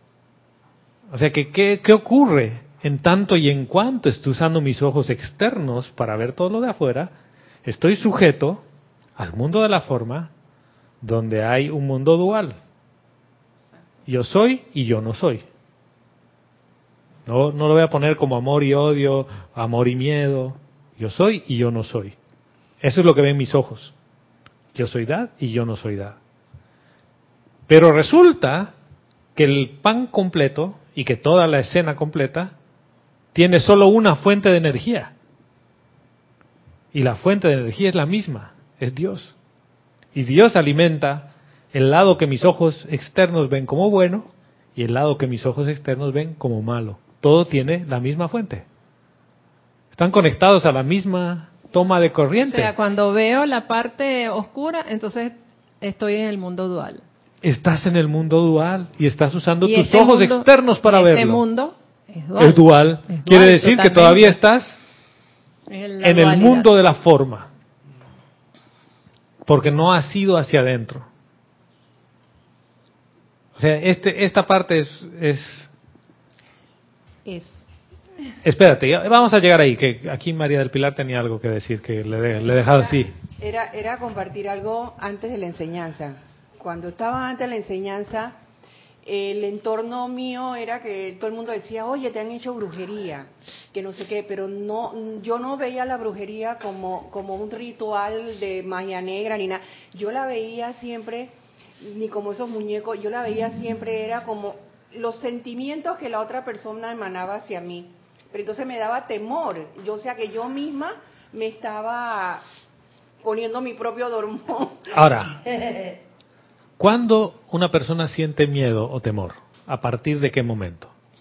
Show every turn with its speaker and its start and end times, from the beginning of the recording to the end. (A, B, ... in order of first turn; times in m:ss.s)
0:01.1-0:07.1 A
0:07.6-0:08.6 A
0:09.2-0:10.3 A
0:11.0-0:12.6 A
0:14.0-0:15.4 A
0:17.3-0:22.2 A
0:22.8-0:23.9 A
0:24.7-0:26.2 A
0:27.7-0:28.7 A
0:29.4-0:32.5 A
0:33.3-0:35.1 A
0:36.9-0:39.4 A
0:40.1-0:48.6 A
0:49.9-0:52.7 A
0:52.4-0:57.0 B
0:57.4-1:01.4 A
0:59.6-1:04.4 B
1:02.4-1:04.8 A
1:05.7-1:06.7 B
1:06.0-1:07.5 A
1:09.5-1:11.1 A
1:13.6-1:15.7 A
1:17.2-1:17.6 B
1:18.4-1:23.1 A
1:23.4-1:28.4 C
1:29.0-1:52.4 C
1:53.2-1:54.9 C
1:54.9-1:55.4 A
1:56.8-2:00.9 A